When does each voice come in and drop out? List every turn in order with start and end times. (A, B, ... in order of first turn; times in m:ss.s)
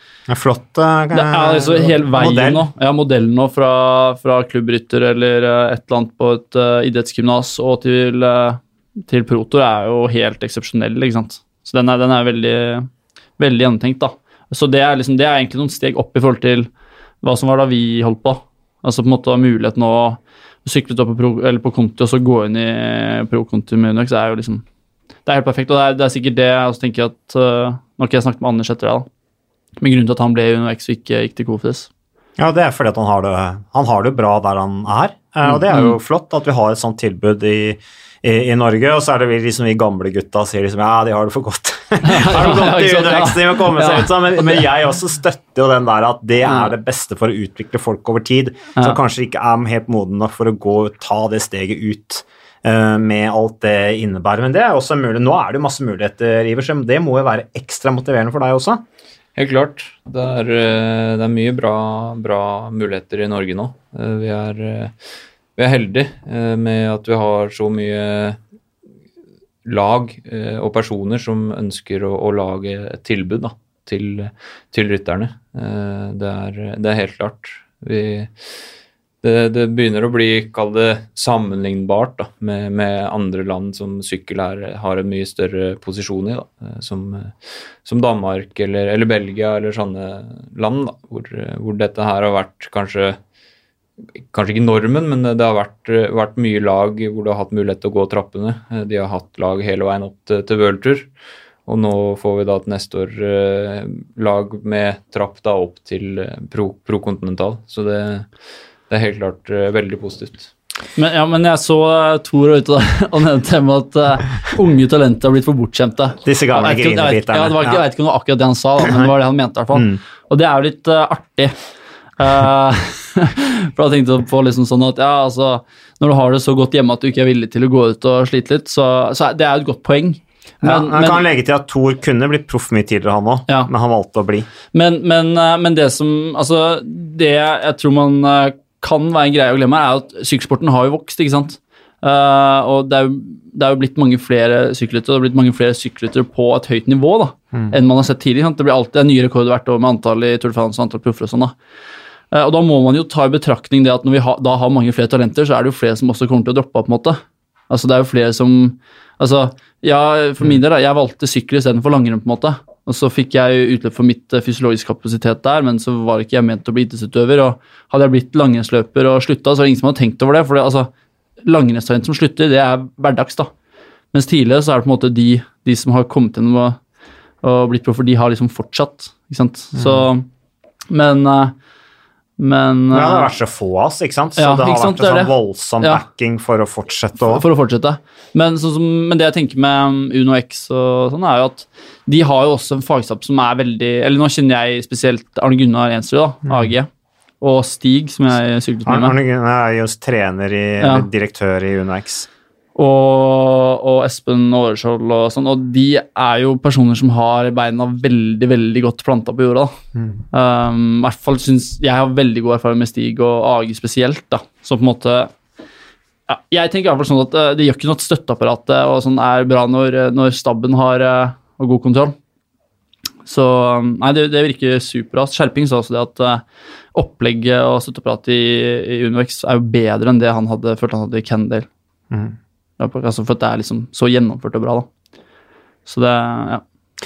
0:00.3-0:02.6 A
0:01.1-0:16.7 B
0:17.2-0:24.6 B
0:25.2-0:29.1 B
0:29.8-0:31.9 B
0:32.4-0:58.8 A
0:35.7-0:36.0 B
0:42.0-0:44.6 B
0:46.4-0:46.7 B
0:59.4-1:04.9 C
1:05.6-1:08.4 C
1:09.6-1:18.5 C
1:19.2-1:33.2 C
1:34.2-1:41.1 C
1:41.6-1:48.3 C
1:48.9-1:50.5 C
1:51.0-2:01.5 B
1:56.2-1:57.8 A
1:58.8-1:59.1 A
1:59.7-2:00.0 A
2:02.2-2:11.2 B
2:10.6-2:14.5 A
2:14.7-2:31.5 B
2:32.3-2:50.9 B
2:51.4-2:53.5 B
2:54.1-2:56.8 B
2:57.4-3:00.3 B
2:59.7-3:00.1 A
3:00.9-3:01.5 B
3:02.4-3:03.3 B
3:02.9-3:07.4 A
3:04.4-3:06.0 B
3:07.2-3:16.9 B
3:16.4-3:16.7 A
3:17.4-3:19.2 B
3:18.8-3:22.3 A
3:20.8-3:21.0 B
3:22.8-3:29.7 B
3:29.9-3:30.2 A
3:30.3-3:35.3 B
3:36.3-3:42.2 B
3:43.2-3:51.7 B
3:52.1-3:52.4 A
3:52.8-3:54.9 B
3:55.8-3:56.6 B